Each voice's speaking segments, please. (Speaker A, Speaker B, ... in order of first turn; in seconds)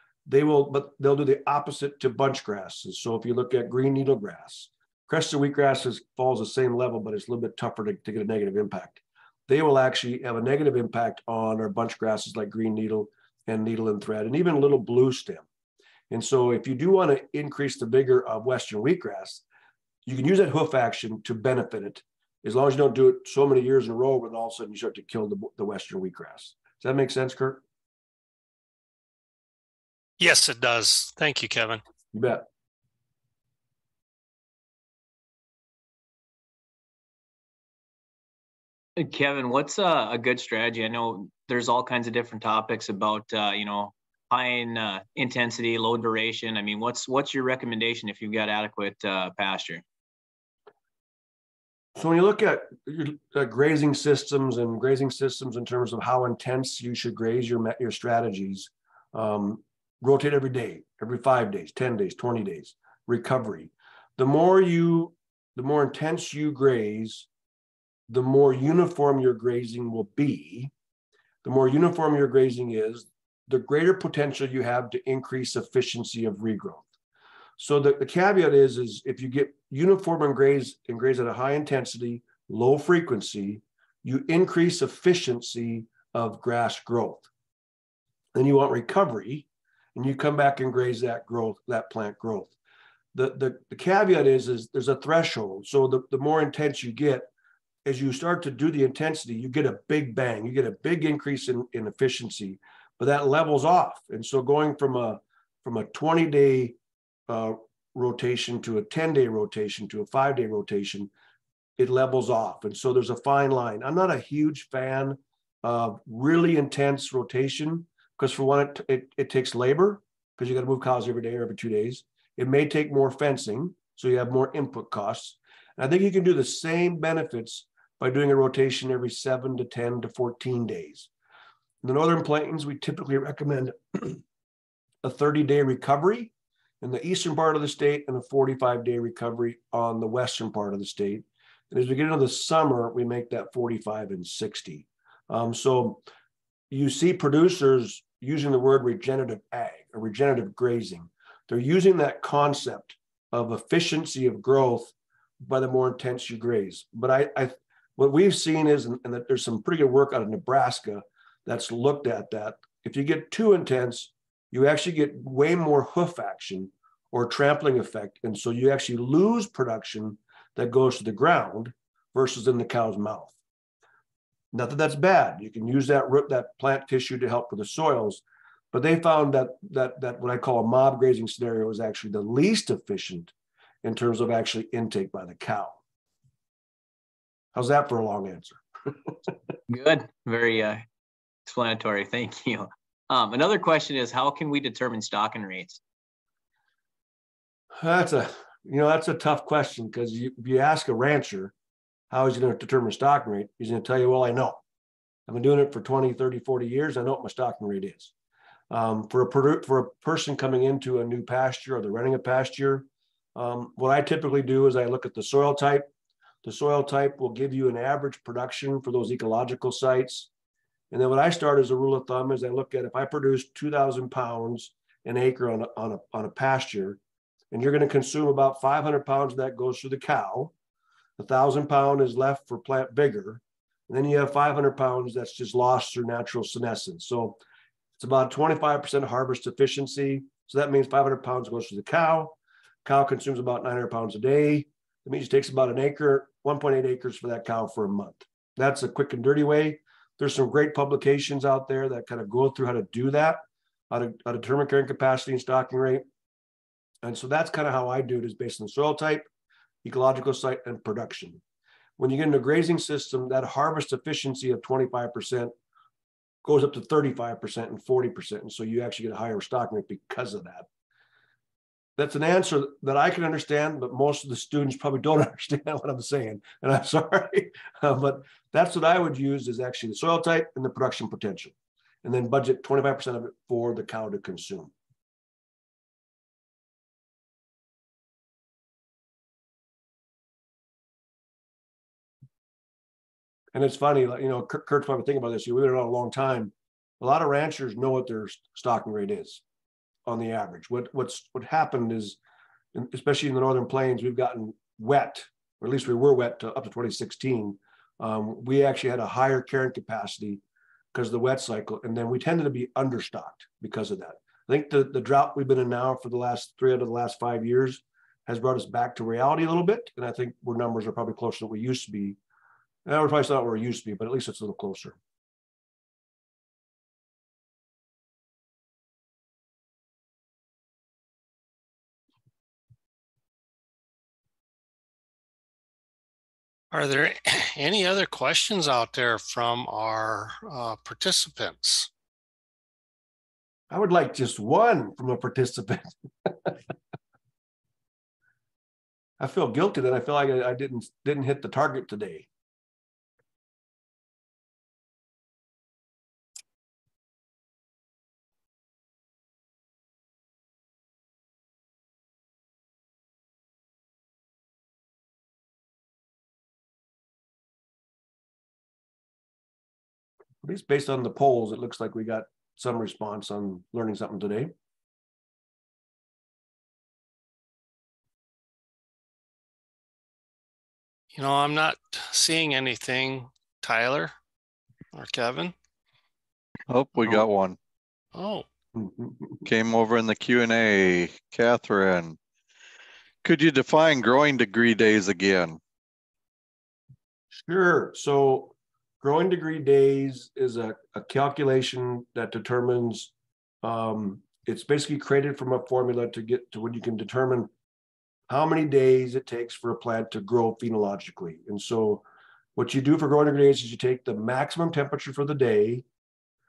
Speaker A: 0.2-15.4, 16.1-19.4, 20.0-27.6, 32.1-32.4, 52.0-67.3, 68.1-70.7, 71.4-76.8, 77.6-87.3, 88.3-92.5, 93.1-97.3, 97.8-106.8, 107.3-111.1, 111.8-131.1, 131.8-134.2, 135.0-146.0, 146.7-173.3, 174.5-183.3, 183.8-185.8, 187.5-189.1, 197.8-201.5, 202.1-204.6, 205.3-208.1, 208.7-215.9, 216.4-220.3, 220.9-227.0, 227.5-230.5, 231.2-237.4, 238.0-256.0, 257.0-259.3, 259.8-261.4, 262.0-265.5, 266.4-270.7, 272.0-284.7, 293.5-299.4, 300.1-302.2, 302.7-310.4, 310.9-322.2, 322.8-325.0, 343.7-346.6, 349.2-352.3, 370.4-374.5, 388.8-389.1, 397.3-403.1, 403.6-407.5, 408.3-412.0, 412.6-415.8
Speaker B: 30.2-31.8, 336.7-341.9, 381.1-384.1, 384.9-385.5, 388.1-388.4
Speaker C: 39.0-49.8, 189.7-190.8, 191.5-195.8
Speaker D: 386.7-387.6, 389.4-392.2, 393.2-395.6